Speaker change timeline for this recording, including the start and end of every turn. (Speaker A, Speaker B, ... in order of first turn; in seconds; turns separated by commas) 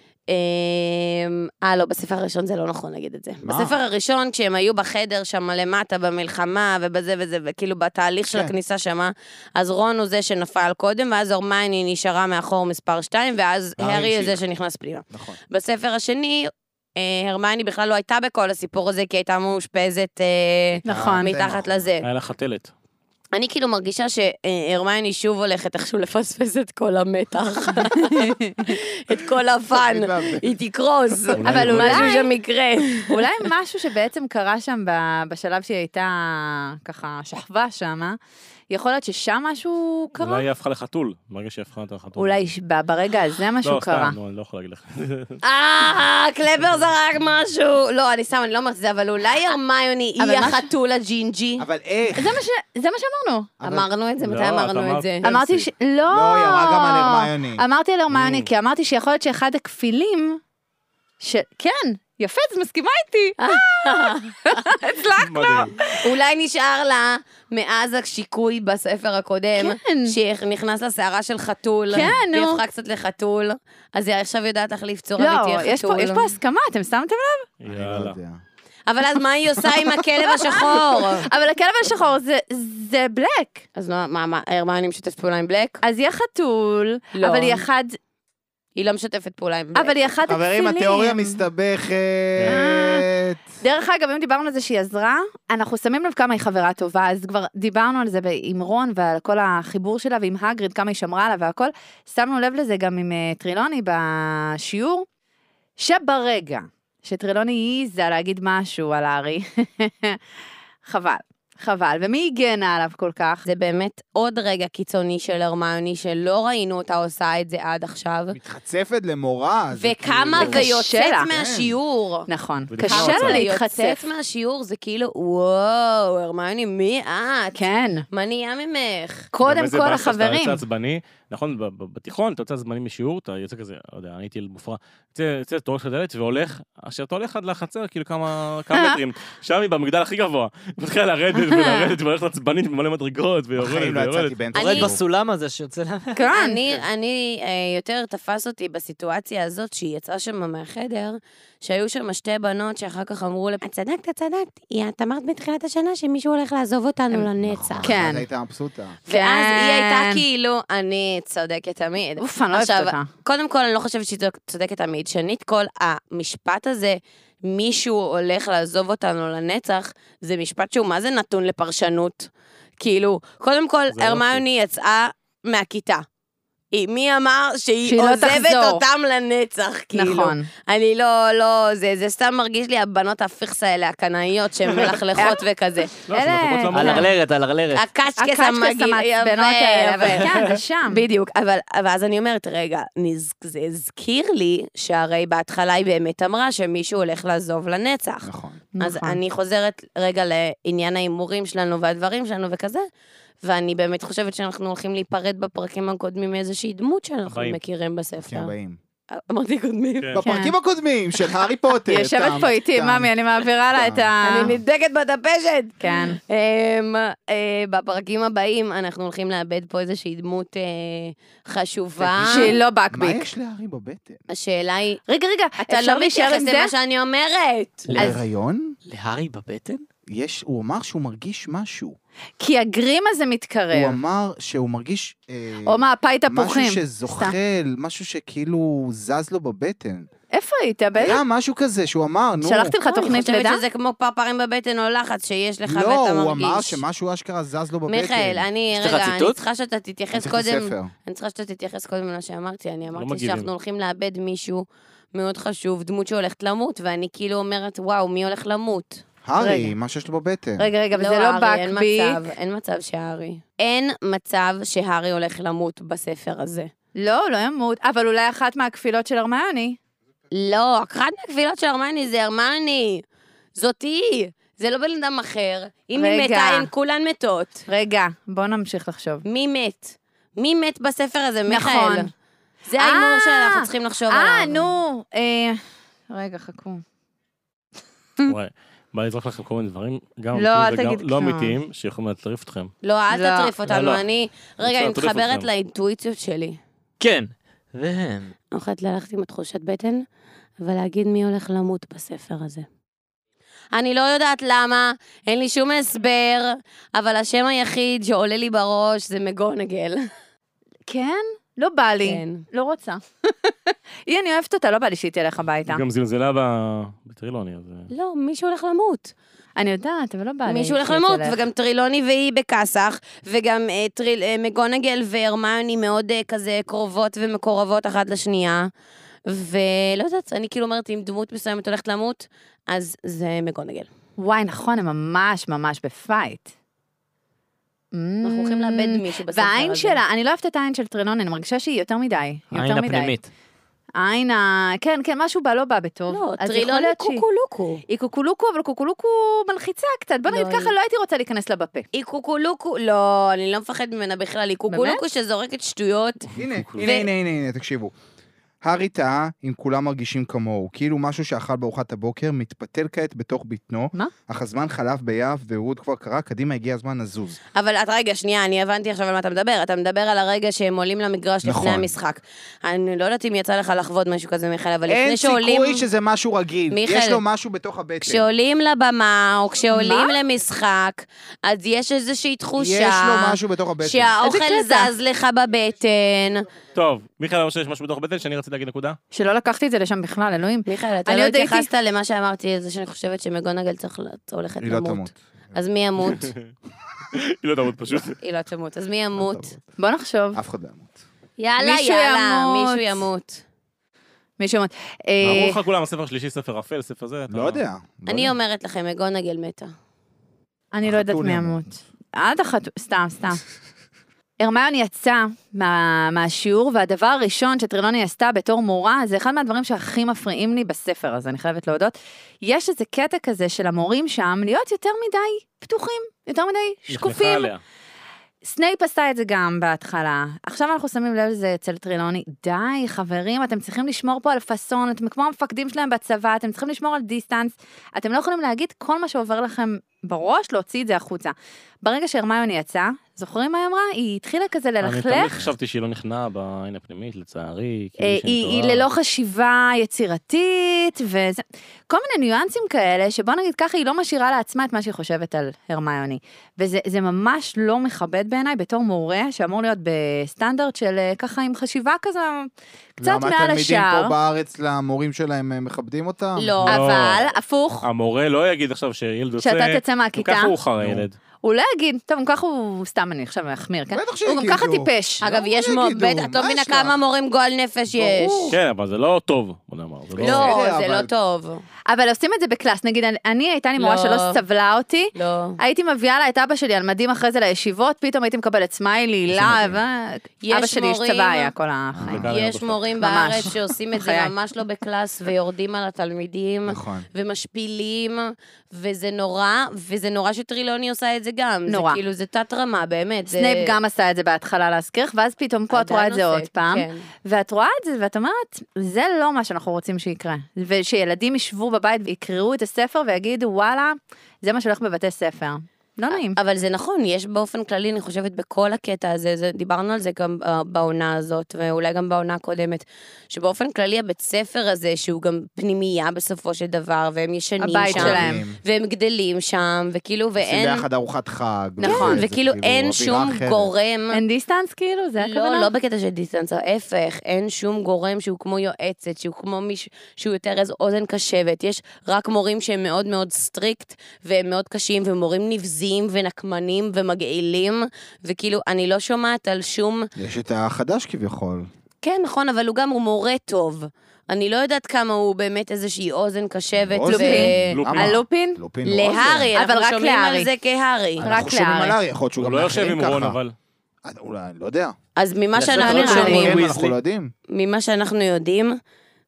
Speaker A: 0.3-22.1, Speaker B: 3.4-3.8, Speaker B: 8.3-8.6, Speaker B: 13.8-14.4, Speaker B: 15.1-15.4, Speaker B: 20.8-21.9, Speaker C: 20.9-21.4, Speaker D: 22.0-22.7, Speaker A: 23.3-33.2, Speaker C: 28.0-28.7, Speaker B: 29.7-30.5, Speaker B: 31.3-31.9, Speaker D: 31.4-32.1, Speaker C: 31.4-32.3, Speaker C: 33.1-38.2, Speaker C: 38.7-40.5, Speaker D: 40.2-42.4, Speaker C: 42.2-44.2, Speaker D: 43.6-45.4, Speaker A: 45.4-51.7, Speaker C: 50.2-50.7, Speaker B: 51.6-52.4, Speaker C: 52.2-53.5, Speaker B: 53.6-53.9, Speaker A: 53.6-55.3, Speaker D: 54.2-55.7, Speaker C: 55.2-60.4, Speaker B: 56.1-57.6, Speaker D: 58.1-58.5, Speaker C: 61.2-66.0, Speaker A: 63.4-64.7, Speaker D: 65.2-65.8, Speaker A: 65.9-76.3, Speaker C: 69.6-70.2, Speaker C: 71.9-72.6, Speaker C: 75.2-77.5, Speaker D: 77.6-78.2, Speaker B: 77.7-78.4, Speaker A: 78.9-81.3, Speaker C: 80.3-83.7, Speaker A: 83.8-85.8, Speaker C: 85.8-88.0, Speaker A: 87.2-87.6, Speaker A: 88.8-90.0, Speaker C: 89.8-91.4, Speaker B: 90.3-93.5, Speaker C: 92.5-93.1, Speaker C: 93.6-105.1, Speaker C: 105.8-110.2, Speaker C: 110.8-113.5, Speaker A: 113.5-118.4, Speaker B: 118.3-121.8, Speaker A: 119.7-122.3, Speaker C: 120.4-121.3, Speaker C: 122.3-124.0, Speaker D: 122.7-123.4, Speaker A: 122.8-129.3, Speaker C: 127.5-128.1, Speaker C: 129.3-130.6, Speaker D: 129.4-144.5, Speaker C: 138.7-139.0, Speaker C: 141.3-142.0, Speaker B: 143.6-145.0, Speaker E: 144.5-146.8, Speaker A: 144.5-144.9, Speaker C: 146.2-146.6, Speaker A: 146.3-157.9, Speaker B: 157.4-159.0, Speaker C: 157.8-158.3, Speaker A: 159.1-172.3, Speaker C: 159.1-160.2, Speaker C: 162.2-163.1, Speaker A: 172.8-176.1, Speaker D: 173.9-174.4, Speaker A: 176.7-186.0, Speaker C: 177.9-178.8, Speaker C: 179.9-180.5, Speaker C: 185.2-185.4, Speaker C: 186.0-187.1, Speaker D: 186.1-187.1, Speaker E: 186.7-187.8, Speaker A: 187.7-202.8, Speaker C: 188.2-191.0, Speaker B: 198.2-198.6, Speaker C: 198.8-199.2, Speaker A: 203.4-208.5, Speaker D: 207.3-207.6, Speaker B: 208.2-208.8, Speaker A: 209.1-210.2, Speaker B: 210.1-213.1, Speaker C: 210.2-210.5, Speaker C: 211.9-214.6, Speaker B: 213.7-214.1, Speaker A: 214.2-222.6, Speaker C: 215.8-216.2, Speaker B: 222.0-224.2, Speaker C: 222.2-223.3, Speaker A: 224.3-225.0, Speaker C: 225.1-226.7, Speaker A: 225.7-227.9, Speaker B: 227.9-228.8, Speaker E: 228.9-229.8, Speaker B: 230.1-232.0, Speaker C: 232.4-234.0, Speaker B: 233.7-240.1, Speaker C: 235.7-237.3, Speaker C: 240.3-241.2, Speaker B: 241.0-242.8, Speaker C: 242.4-243.6, Speaker A: 242.8-246.8, Speaker B: 245.7-248.5, Speaker A: 247.9-259.0, Speaker E: 248.7-249.4, Speaker B: 250.1-250.9, Speaker D: 252.9-253.5, Speaker B: 259.2-260.7, Speaker C: 259.4-259.7, Speaker C: 260.6-262.2, Speaker A: 260.9-266.7, Speaker C: 267.0-269.8, Speaker A: 270.3-273.0, Speaker A: 273.6-277.6, Speaker C: 275.9-276.7, Speaker C: 277.7-279.2, Speaker A: 279.2-282.1, Speaker C: 281.5-282.1, Speaker A: 282.7-284.7, Speaker C: 282.7-285.6, Speaker C: 286.1-286.8, Speaker D: 288.3-292.7, Speaker C: 290.3-291.6, Speaker A: 292.8-296.6, Speaker C: 293.1-293.5, Speaker D: 293.7-294.0, Speaker D: 294.6-295.5, Speaker E: 297.0-298.3, Speaker A: 298.5-300.1, Speaker A: 300.6-302.7, Speaker A: 303.7-310.1, Speaker C: 310.9-315.8, Speaker A: 312.0-312.4, Speaker D: 315.7-317.9, Speaker A: 317.9-319.1, Speaker C: 319.6-321.4, Speaker A: 320.5-328.7, Speaker A: 329.3-333.9, Speaker C: 334.2-336.5, Speaker C: 337.9-343.1, Speaker A: 338.2-340.0, Speaker E: 342.5-343.3, Speaker C: 344.0-347.2, Speaker A: 346.1-347.8, Speaker C: 347.9-351.9, Speaker A: 350.3-350.7, Speaker A: 351.9-356.3, Speaker C: 354.7-355.0, Speaker B: 356.4-357.9, Speaker D: 356.4-356.9, Speaker A: 356.8-357.1, Speaker B: 358.6-367.4, Speaker A: 367.6-375.8, Speaker B: 371.4-371.9, Speaker B: 374.9-378.3, Speaker A: 376.7-377.2, Speaker A: 378.0-386.5, Speaker C: 379.7-380.2, Speaker B: 382.6-384.1, Speaker C: 384.2-384.9, Speaker D: 386.8-389.0, Speaker C: 389.1-391.7, Speaker A: 390.7-396.3, Speaker B: 394.6-395.6, Speaker D: 396.1-396.4, Speaker D: 397.1-398.2, Speaker A: 398.2-399.5, Speaker B: 399.2-399.6, Speaker C: 399.8-400.4, Speaker B: 400.3-401.0, Speaker A: 401.4-403.4, Speaker C: 401.6-403.0, Speaker C: 404.4-405.6, Speaker D: 405.2-407.6, Speaker B: 407.3-408.3, Speaker A: 408.1-409.7, Speaker C: 410.7-413.4, Speaker B: 410.9-411.6, Speaker C: 414.4-427.5, Speaker D: 426.9-427.6, Speaker C: 428.4-445.5, Speaker D: 444.8-448.9, Speaker C: 448.0-462.5, Speaker B: 463.0-466.7, Speaker C: 463.0-464.1, Speaker A: 466.4-466.9, Speaker D: 466.7-467.2, Speaker C: 466.7-467.9, Speaker D: 467.8-471.2, Speaker C: 469.4-470.6, Speaker B: 470.8-471.1, Speaker C: 471.4-475.2, Speaker B: 473.9-477.0, Speaker A: 475.2-478.6, Speaker B: 477.9-478.6, Speaker D: 478.5-480.6, Speaker B: 480.2-481.1, Speaker A: 480.2-481.6, Speaker C: 481.9-492.3, Speaker A: 483.8-484.4, Speaker A: 485.1-485.6, Speaker B: 489.3-489.8, Speaker A: 490.4-491.5, Speaker B: 491.9-492.3, Speaker D: 492.1-492.9, Speaker A: 492.3-503.7, Speaker C: 493.0-494.3, Speaker B: 496.7-497.1, Speaker C: 501.7-502.0, Speaker C: 503.3-516.4, Speaker A: 505.7-507.1, Speaker A: 516.1-530.9, Speaker C: 527.6-528.4, Speaker B: 527.9-528.6, Speaker B: 530.4-533.7, Speaker C: 531.8-532.2, Speaker A: 531.8-534.2, Speaker C: 534.1-535.7, Speaker A: 535.2-550.1, Speaker B: 550.2-551.7, Speaker A: 552.0-557.8, Speaker B: 556.8-559.5, Speaker C: 557.1-558.6, Speaker D: 557.7-558.2, Speaker A: 558.8-561.3, Speaker C: 559.5-560.5, Speaker B: 561.2-563.4, Speaker C: 561.2-562.0, Speaker D: 562.4-563.5, Speaker B: 564.0-565.0, Speaker A: 565.2-566.7, Speaker E: 565.5-567.0, Speaker B: 565.7-567.3, Speaker C: 565.9-566.5, Speaker A: 567.5-568.8